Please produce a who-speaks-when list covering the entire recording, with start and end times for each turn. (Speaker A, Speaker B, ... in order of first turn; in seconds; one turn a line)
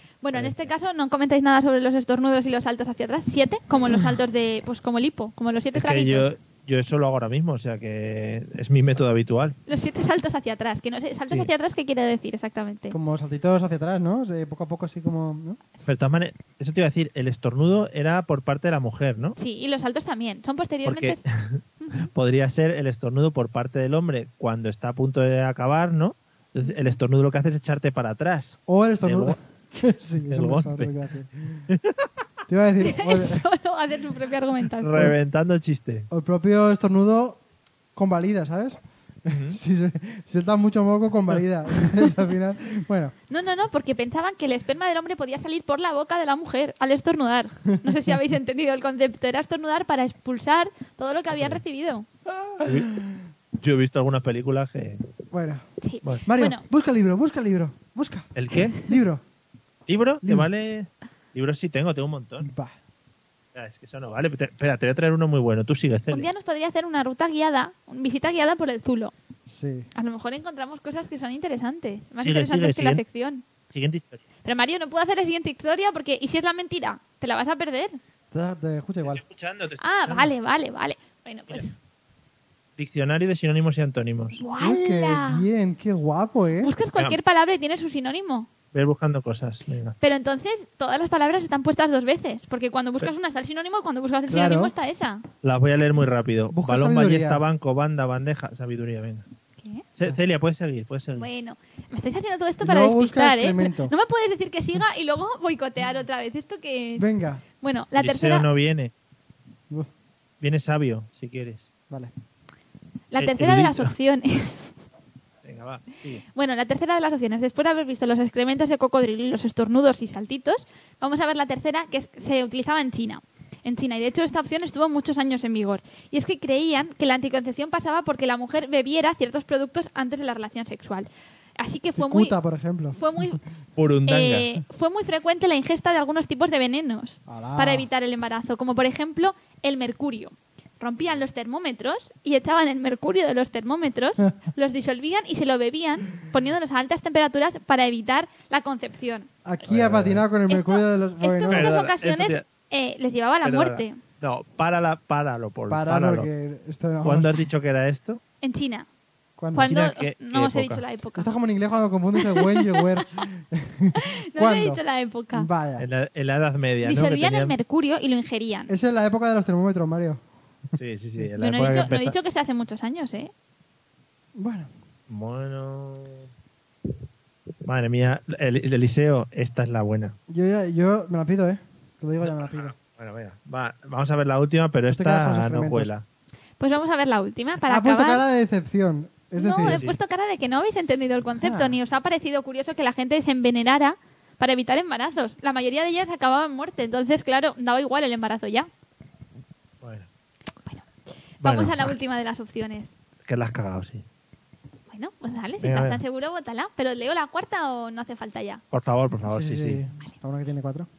Speaker A: 0.2-6.3
Speaker B: 0.3-0.7
Speaker B: 5.7-9.6
Speaker A: 9.7-13.0
Speaker C: 12.9-15.6
Speaker B: 15.8-19.4
Speaker A: 19.4-21.2
Speaker B: 20.8-29.4
Speaker A: 21.8-22.1
Speaker C: 28.7-31.7
Speaker B: 30.3-30.9
Speaker B: 31.7-32.1
Speaker C: 32.5-33.4
Speaker A: 32.8-35.1
Speaker B: 34.8-36.1
Speaker C: 36.1-37.4
Speaker C: 37.9-43.1
Speaker B: 39.3-39.6
Speaker A: 43.3-52.1
Speaker B: 51.3-51.6
Speaker C: 52.3-53.2
Speaker B: 52.6-52.9
Speaker B: 53.6-55.0
Speaker C: 55.3-55.6
Speaker A: 55.8-56.6
Speaker C: 56.2-58.3
Speaker B: 58.3-58.9
Speaker C: 58.8-59.2
Speaker B: 59.9-62.5
Speaker C: 60.2-60.5
Speaker C: 62.4-62.8
Speaker B: 63.5-66.3
Speaker A: 66.1-69.1
Speaker C: 69.5-69.9
Speaker A: 69.9-73.4
Speaker B: 72.2-73.0
Speaker B: 73.7-74.2
Speaker A: 74.4-78.0
Speaker C: 78.3-79.2
Speaker B: 79.0-80.3
Speaker A: 79.8-81.7
Speaker B: 82.8-84.4
Speaker A: 84.4-85.5
Speaker C: 84.6-86.7
Speaker A: 86.6-88.5
Speaker B: 88.7-90.0
Speaker A: 90.0-95.2
Speaker C: 94.3-94.7
Speaker B: 95.4-99.2
Speaker C: 96.5-97.4
Speaker B: 99.9-101.3
Speaker A: 101.2-107.0
Speaker C: 102.6-103.9
Speaker C: 107.0-107.4
Speaker A: 107.6-108.5
Speaker B: 108.0-108.9
Speaker B: 110.4-111.7
Speaker A: 113.1-114.8
Speaker B: 113.2-113.9
Speaker B: 115.4-116.2
Speaker A: 116.3-131.1
Speaker A: 131.6-132.3
Speaker C: 131.9-133.0
Speaker A: 132.9-133.4
Speaker B: 133.8-134.6
Speaker A: 134.1-149.3
Speaker C: 137.3-137.9
Speaker C: 149.4-151.8
Speaker B: 149.6-150.2
Speaker A: 150.5-154.0
Speaker B: 151.5-152.4
Speaker B: 153.4-156.3
Speaker C: 155.7-157.4
Speaker B: 157.0-158.2
Speaker A: 158.4-158.9
Speaker C: 159.4-159.7
Speaker A: 159.5-161.3
Speaker B: 159.6-160.8
Speaker C: 161.2-164.8
Speaker A: 162.2-163.0
Speaker A: 163.9-165.5
Speaker C: 165.3-165.8
Speaker B: 165.8-167.5
Speaker A: 166.8-168.7
Speaker C: 168.7-170.2
Speaker B: 170.8-172.2
Speaker A: 171.4-173.3
Speaker C: 174.3-174.7
Speaker B: 175.1-176.3
Speaker B: 177.6-180.2
Speaker C: 180.3-182.7
Speaker B: 182.2-186.0
Speaker C: 184.9-185.9
Speaker A: 186.6-188.2
Speaker C: 187.7-189.8
Speaker A: 189.4-198.7
Speaker B: 189.6-190.0
Speaker C: 191.4-191.8
Speaker B: 199.8-200.1
Speaker A: 201.4-202.9
Speaker B: 201.4-201.9
Speaker B: 203.2-204.0
Speaker A: 204.9-208.6
Speaker B: 205.6-206.0
Speaker B: 208.7-209.8
Speaker C: 209.3-210.9